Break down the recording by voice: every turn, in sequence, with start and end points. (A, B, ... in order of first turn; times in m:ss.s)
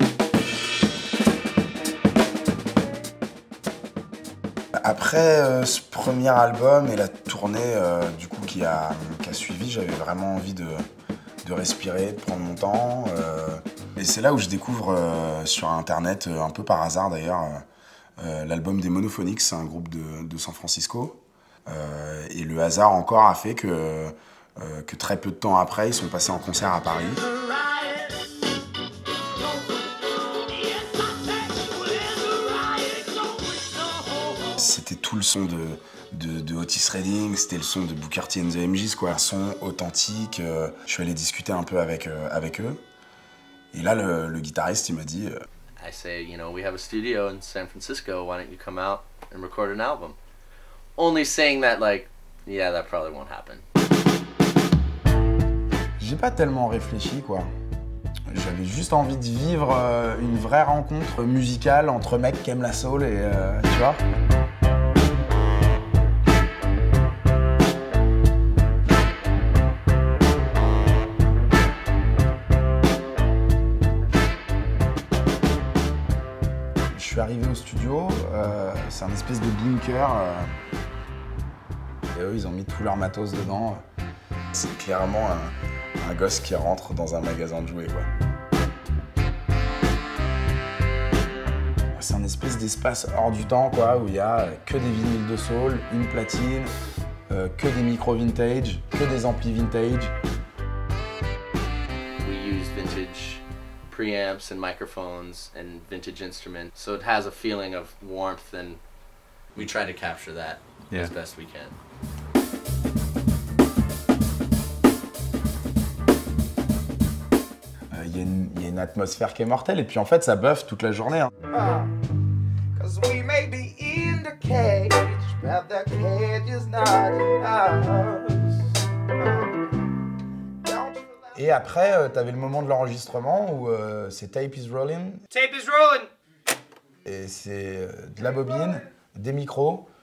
0:04.8-0:10.9 A
0:11.4-0:17.6 A
0:18.2-0:27.3 A
0:27.2-0:28.2 B
0:29.4-0:34.6 B
0:34.5-0:42.8 A
0:43.7-0:45.4 A
0:45.8-0:50.2 C
0:51.0-0:53.6 C
0:56.0-0:57.5 A
0:58.3-1:04.0 A
1:16.9-1:20.5 A
1:22.1-1:23.8 A
1:24.5-1:28.1 A
1:31.9-1:36.8 A
1:37.3-1:40.1 A
1:42.2-1:48.8 C
1:49.6-1:51.8 C
1:57.9-2:01.3 A
2:01.5-2:01.9 B
2:02.8-2:09.6 B
2:10.6-2:11.3 B
2:11.3-2:15.2 A
2:15.3-2:16.1 B
2:17.0-2:19.9 A